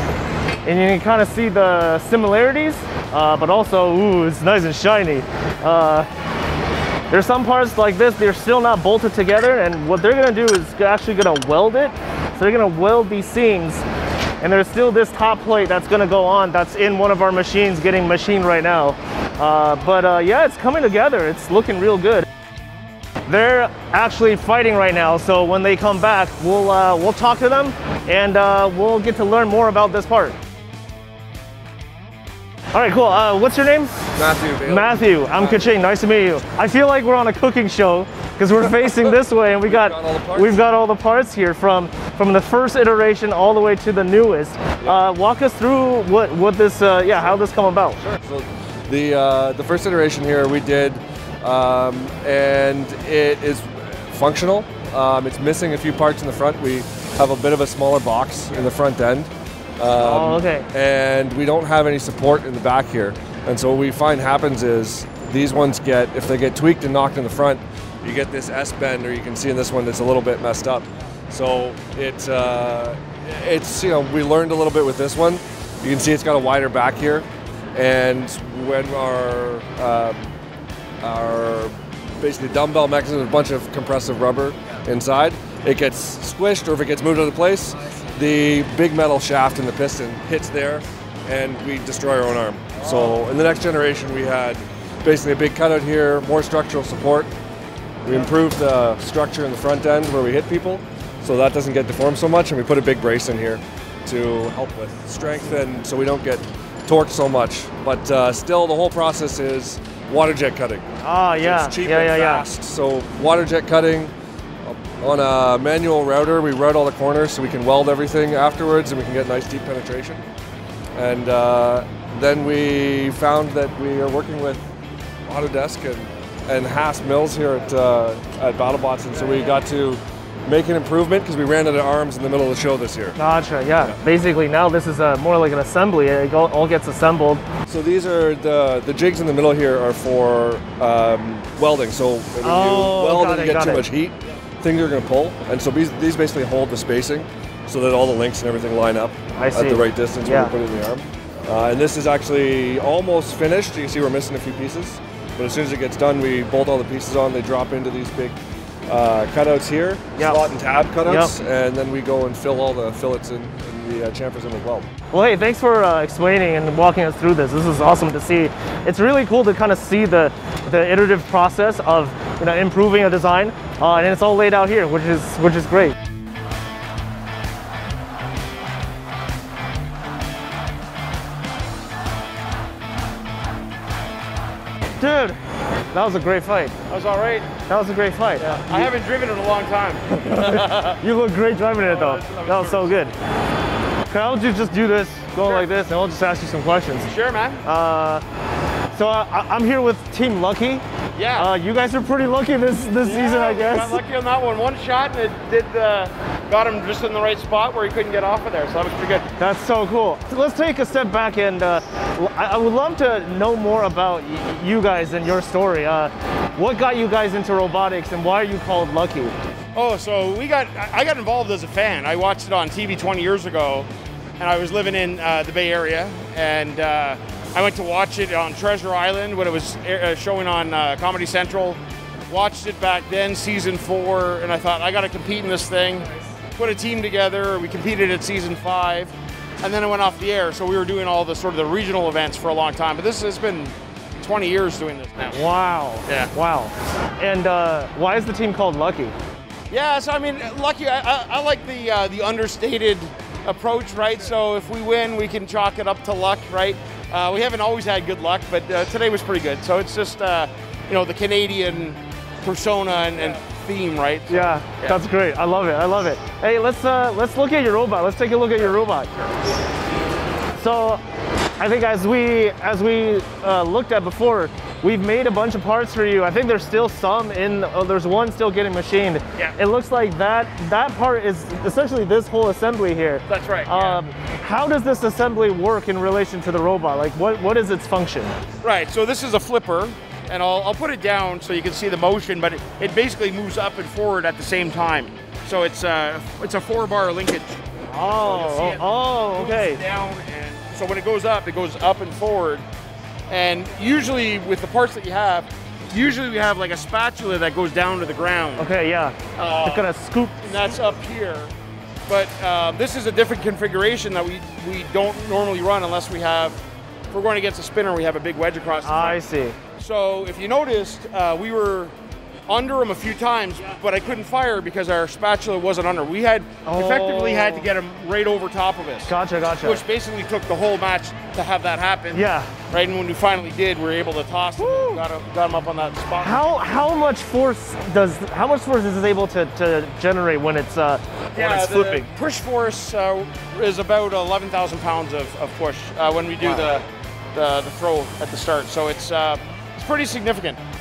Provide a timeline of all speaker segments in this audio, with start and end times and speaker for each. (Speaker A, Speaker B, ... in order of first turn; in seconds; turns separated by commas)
Speaker A: 0.6-6.1, Speaker A: 7.1-13.8, Speaker A: 14.4-22.3, Speaker A: 23.3-30.4, Speaker A: 32.7-34.0, Speaker B: 34.2-35.7, Speaker A: 34.6-48.0, Speaker B: 39.7-40.6, Speaker B: 48.0-80.3, Speaker A: 60.0-60.7, Speaker B: 81.0-97.3, Speaker B: 98.0-110.8, Speaker A: 111.0-112.5, Speaker B: 111.4-114.1, Speaker B: 114.6-120.2, Speaker B: 121.0-124.6, Speaker B: 125.3-133.2, Speaker A: 133.1-137.4, Speaker B: 137.7-158.4, Speaker A: 142.4-143.9, Speaker A: 149.4-150.5, Speaker B: 158.9-164.9, Speaker A: 161.1-161.3, Speaker A: 165.1-175.9, Speaker A: 185.0-185.4, Speaker A: 185.9-186.8, Speaker C: 186.9-187.5, Speaker A: 187.7-188.9, Speaker C: 188.5-191.0, Speaker A: 190.2-193.1, Speaker C: 191.8-192.9, Speaker A: 194.1-197.1, Speaker C: 195.4-195.7, Speaker C: 197.1-197.6, Speaker A: 197.6-198.2, Speaker A: 198.9-200.8, Speaker C: 201.2-201.5, Speaker A: 201.3-204.0, Speaker C: 203.0-209.2, Speaker A: 209.4-219.3, Speaker C: 219.8-223.9, Speaker C: 224.4-245.5, Speaker A: 245.3-249.1, Speaker C: 249.7-265.0, Speaker A: 264.3-269.1, Speaker A: 270.6-271.0, Speaker A: 271.6-288.3, Speaker C: 283.3-284.0, Speaker C: 288.6-302.6, Speaker A: 297.9-299.8, Speaker C: 303.3-308.7, Speaker A: 308.6-310.7, Speaker C: 309.4-309.9, Speaker C: 310.4-311.5, Speaker C: 312.1-316.6, Speaker C: 317.1-319.2, Speaker A: 318.8-319.6, Speaker C: 319.8-321.9, Speaker C: 322.5-336.5, Speaker A: 326.6-327.7, Speaker A: 329.1-329.8, Speaker A: 332.1-332.5, Speaker A: 334.6-335.0, Speaker A: 336.2-342.1, Speaker C: 341.4-350.6